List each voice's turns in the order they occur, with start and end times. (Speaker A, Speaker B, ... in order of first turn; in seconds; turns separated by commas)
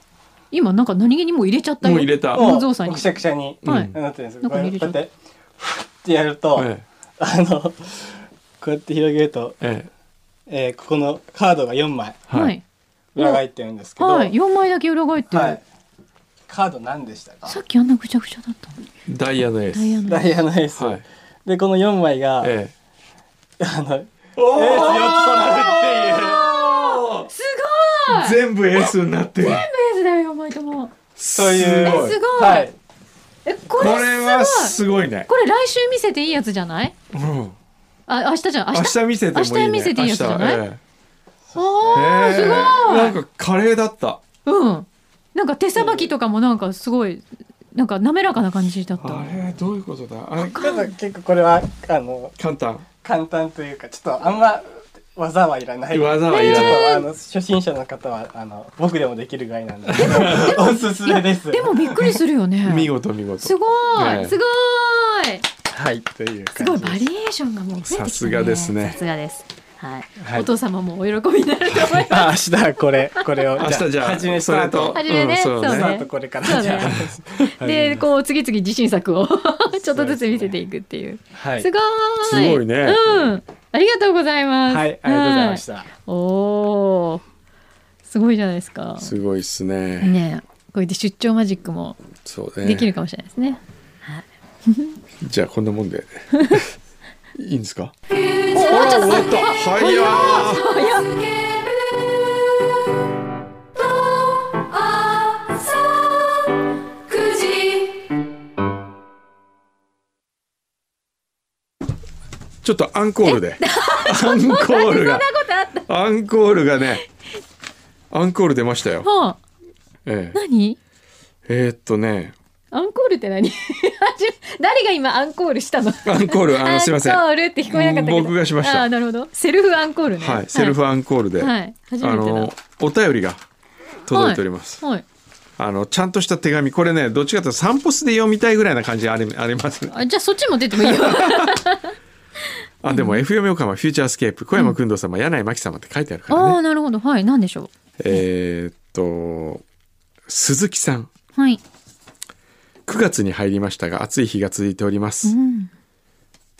Speaker A: 0.5-5.0, Speaker B: 1.8-2.5, Speaker C: 2.4-9.6, Speaker B: 3.6-4.0, Speaker B: 6.5-6.8, Speaker B: 9.6-9.9, Speaker C: 10.5-12.2, Speaker B: 12.3-12.5, Speaker A: 12.3-12.6, Speaker C: 13.1-14.3, Speaker A: 14.0-15.6, Speaker C: 15.3-15.6, Speaker C: 16.5-17.6, Speaker A: 17.4-18.8, Speaker B: 19.1-20.1, Speaker A: 19.7-20.4, Speaker C: 20.1-22.5, Speaker B: 20.8-21.0, Speaker B: 22.4-22.7, Speaker C: 23.6-26.4, Speaker B: 24.4-27.3, Speaker A: 26.6-30.9, Speaker B: 28.1-29.7, Speaker B: 31.2-32.2, Speaker C: 31.3-32.7, Speaker A: 31.7-32.7, Speaker A: 33.4-36.9, Speaker B: 33.7-35.3, Speaker B: 37.1-37.5, Speaker A: 38.1-40.6, Speaker B: 38.7-40.8, Speaker C: 41.5-42.5, Speaker A: 41.5-43.2, Speaker B: 41.9-44.2, Speaker A: 44.4-49.3, Speaker C: 45.8-46.1, Speaker B: 49.0-50.6, Speaker A: 50.4-50.9, Speaker C: 50.5-52.3, Speaker B: 52.4-52.9, Speaker C: 53.0-62.2, Speaker B: 55.9-56.8, Speaker A: 56.2-57.0, Speaker B: 59.9-60.5, Speaker A: 60.0-65.4, Speaker B: 62.6-64.4, Speaker C: 65.7-67.1, Speaker A: 66.5-72.3, Speaker B: 67.9-69.0, Speaker C: 70.2-70.5, Speaker B: 71.7-72.0, Speaker C: 72.1-78.0, Speaker B: 73.6-75.9, Speaker A: 74.9-87.2, Speaker C: 79.7-80.5, Speaker C: 81.3-81.7, Speaker B: 82.2-83.3, Speaker C: 84.7-85.9, Speaker A: 88.0-89.2, Speaker B: 89.0-90.2, Speaker A: 90.0-92.0, Speaker B: 92.2-92.9, Speaker A: 92.6-95.0, Speaker B: 95.2-96.7, Speaker A: 96.3-96.6, Speaker B: 97.3-97.9, Speaker A: 98.2-101.2, Speaker B: 98.5-100.8, Speaker A: 105.3-105.6, Speaker A: 107.1-107.9, Speaker B: 112.6-115.3, Speaker A: 113.2-115.9, Speaker B: 115.8-117.0, Speaker B: 118.1-119.1, Speaker A: 119.0-119.4, Speaker B: 120.0-120.4, Speaker A: 120.3-120.8, Speaker B: 121.5-122.3, Speaker A: 122.7-130.8, Speaker B: 126.0-128.9, Speaker B: 130.1-133.4, Speaker A: 131.4-132.5, Speaker B: 134.1-134.8, Speaker A: 134.1-135.0, Speaker B: 135.6-140.0, Speaker A: 139.9-141.9, Speaker B: 140.7-141.6, Speaker B: 142.8-146.6, Speaker A: 142.9-143.2, Speaker A: 146.3-148.2, Speaker B: 148.0-149.6, Speaker B: 150.3-151.1, Speaker A: 151.3-151.6, Speaker B: 152.9-155.3, Speaker A: 155.2-155.7